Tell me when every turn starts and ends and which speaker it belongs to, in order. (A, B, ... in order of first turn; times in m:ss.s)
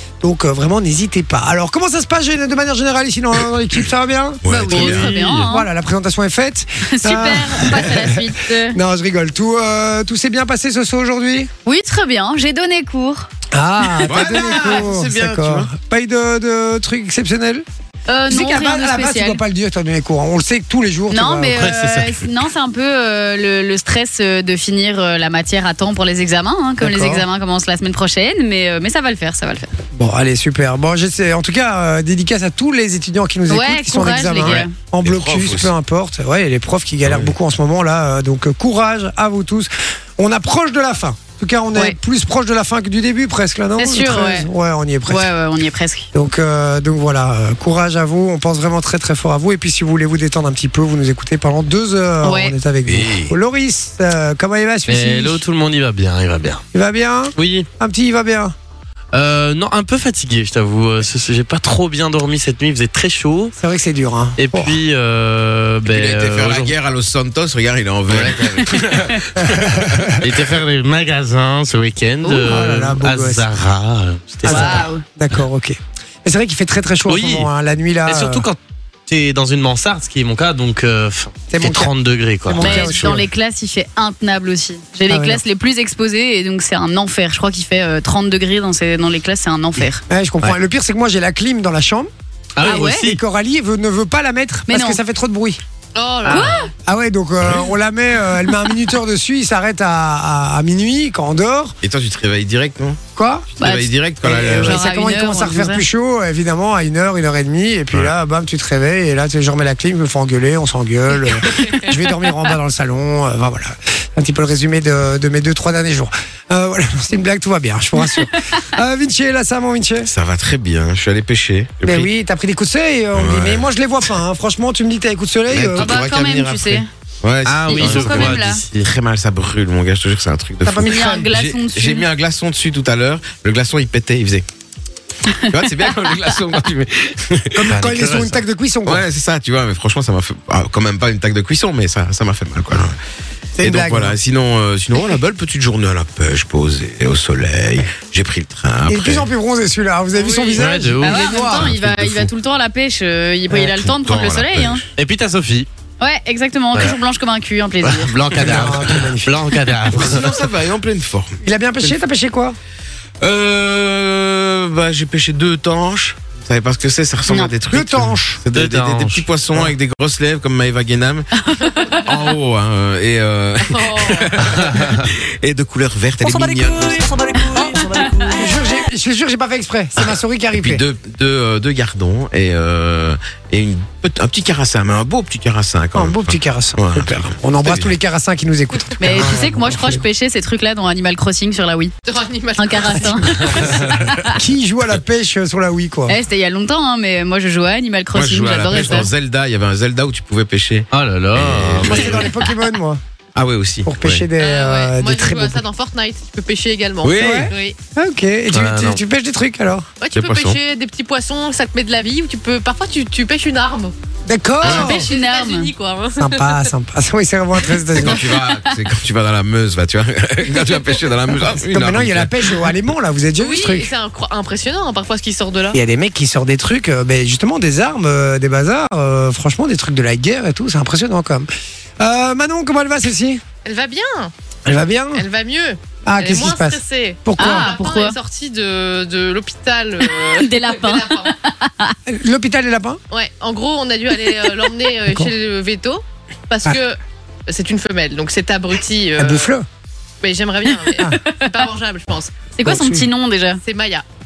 0:00.2-0:04.9 A
0:04.4-0:05.1 B
0:04.5-0:05.7 C
0:04.7-0:05.5 D
0:05.5-0:11.5 A
0:06.8-0:08.8 C
0:11.6-0:13.3 C
0:13.5-0:17.6 A
0:14.0-0:15.7 B
0:18.1-0:19.4 C
0:18.3-0:21.8 A
0:21.1-0:29.7 C
0:21.5-0:22.2 D
0:26.8-0:27.2 A
0:29.9-0:45.3 A
0:33.5-0:34.7 C
0:34.4-0:35.7 B
0:37.1-0:37.3 B
0:43.8-0:44.5 C
0:45.1-0:46.1 C
0:46.1-0:55.4 A
0:52.2-0:52.6 C
0:52.9-0:53.3 B
0:54.9-0:56.6 D
0:56.7-0:58.5 A
0:57.4-0:57.7 D
0:59.1-1:03.5 D
1:03.6-1:04.8 A
1:04.4-1:06.8 D
1:05.9-1:10.1 B
1:08.1-1:09.2 D
1:09.5-1:10.1 A
1:10.2-1:14.9 D
1:12.2-1:12.5 C
1:12.4-1:13.4 A
1:14.4-1:15.0 C
1:14.4-1:18.5 A
1:17.1-1:17.5 D
1:18.1-1:23.0 D
1:21.5-1:21.9 A
1:22.4-1:23.3 A
1:22.6-1:30.0 C
1:25.1-1:25.4 A
1:30.1-1:32.1 A
1:32.6-1:33.2 D
1:32.6-1:33.1 C
1:32.6-1:35.6 A
1:34.7-1:35.0 C
1:36.0-1:36.7 E
1:36.3-1:41.8 A
1:36.3-1:36.7 C
1:41.8-1:43.0 B
1:43.2-1:43.6 A
1:43.6-1:44.8 B
1:43.6-1:45.8 C
1:44.2-2:00.1 A
2:00.0-2:02.1 B
2:01.8-2:06.0 A
2:03.1-2:03.7 B
2:05.5-2:14.4 B
2:05.8-2:06.9 C
2:07.4-2:08.9 D
2:07.7-2:08.6 C
2:10.6-2:11.3 A
2:10.8-2:12.1 C
2:15.5-2:18.3 B
2:17.6-2:19.0 A
2:17.7-2:18.4 D
2:18.9-2:23.0 B
2:23.6-2:24.2 A
2:23.6-2:29.3 B
2:28.9-2:31.7 A
2:30.2-2:30.6 E
2:30.6-2:32.3 D
2:31.0-2:34.8 C
2:33.6-2:34.9 B
2:35.0-2:35.7 D
2:36.0-2:38.2 C
2:37.8-2:40.4 D
2:38.3-2:39.4 A
2:39.9-2:41.4 B
2:41.4-2:42.6 A
2:43.2-2:51.3 B
2:47.7-2:48.4 A
2:48.5-2:49.3 D
2:51.4-2:52.0 C
2:52.0-2:57.2 B
2:53.6-2:54.3 E
2:58.3-3:00.8 A
3:00.6-3:07.9 B
3:05.9-3:10.0 A
3:09.0-3:11.9 C
3:12.1-3:13.7 E
3:12.6-3:14.3 C
3:13.4-3:13.7 A
3:14.3-3:16.2 A
3:16.1-3:19.1 C
3:18.1-3:22.3 B
3:20.9-3:22.3 D
3:21.9-3:23.0 A
3:23.4-3:24.2 B
3:23.8-3:25.6 A
3:24.4-3:27.8 E
3:27.0-3:27.5 B
3:27.2-3:29.9 A
3:28.5-3:29.0 D
3:30.0-3:33.9 E
3:30.1-3:30.6 B
3:34.3-3:35.1 A
3:34.6-3:36.7 E
3:34.6-3:35.7 C
3:36.2-3:38.3 A
3:38.0-3:42.6 B
3:41.5-3:43.9 A
3:43.4-3:45.8 E
3:45.7-3:51.5 A
3:52.0-3:53.4 A
3:53.6-3:54.3 E
3:54.7-3:55.2 A
3:55.1-4:01.4 E
3:56.0-3:57.7 A
3:57.4-3:58.2 C
4:00.0-4:02.0 C
4:02.1-4:03.0 A
4:03.1-4:09.5 E
4:09.2-4:09.7 A
4:10.2-4:12.3 E
4:12.6-4:13.6 C
4:12.6-4:13.1 A
4:13.6-4:14.0 E